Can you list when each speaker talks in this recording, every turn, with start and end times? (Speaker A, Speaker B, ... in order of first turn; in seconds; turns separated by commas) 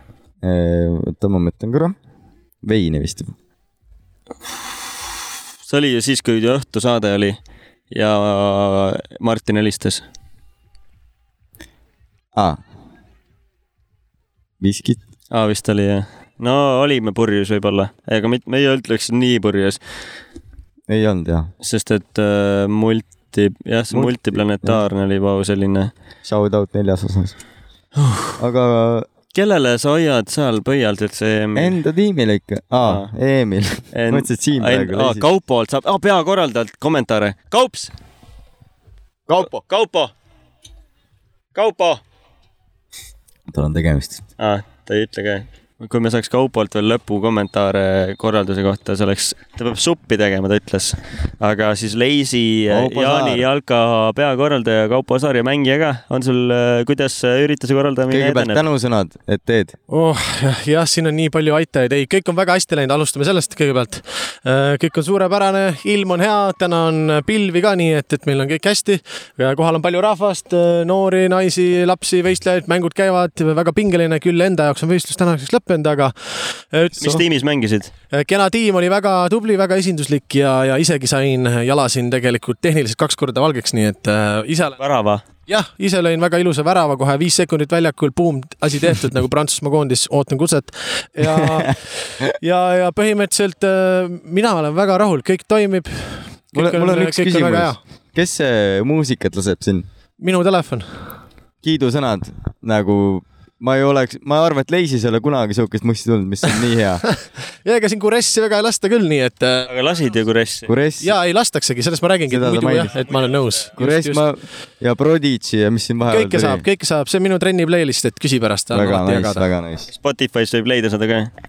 Speaker A: 0.4-2.0, Speaker A: 2.6-3.3, Speaker B: 5.7-7.4, Speaker B: 7.9-10.0, Speaker A: 12.3-12.6, Speaker A: 14.6-15.0, Speaker B: 15.3-19.8, Speaker A: 20.9-21.5, Speaker B: 21.6-25.9, Speaker A: 23.9-24.8, Speaker A: 26.2-27.3, Speaker B: 28.0-28.4, Speaker A: 28.4-29.1, Speaker B: 29.3-31.8, Speaker A: 31.6-35.3, Speaker B: 32.8-33.1, Speaker B: 33.9-37.9, Speaker A: 39.3-39.6, Speaker B: 39.4-40.1, Speaker B: 41.5-42.0, Speaker A: 43.5-44.2, Speaker B: 44.4-58.6, Speaker A: 52.7-53.4, Speaker A: 58.1-59.8, Speaker C: 59.9-77.2, Speaker B: 77.0-77.9, Speaker C: 78.1-84.8, Speaker B: 84.8-85.2, Speaker C: 85.5-97.8, Speaker A: 91.2-91.7, Speaker A: 96.5-99.8, Speaker C: 100.2-101.1, Speaker A: 101.6-107.0, Speaker C: 107.6-109.7, Speaker B: 109.7-110.7, Speaker A: 110.7-111.1, Speaker C: 111.0-114.3, Speaker A: 112.3-112.9, Speaker A: 113.7-116.6, Speaker C: 116.1-119.5, Speaker A: 118.7-119.9, Speaker B: 119.9-121.3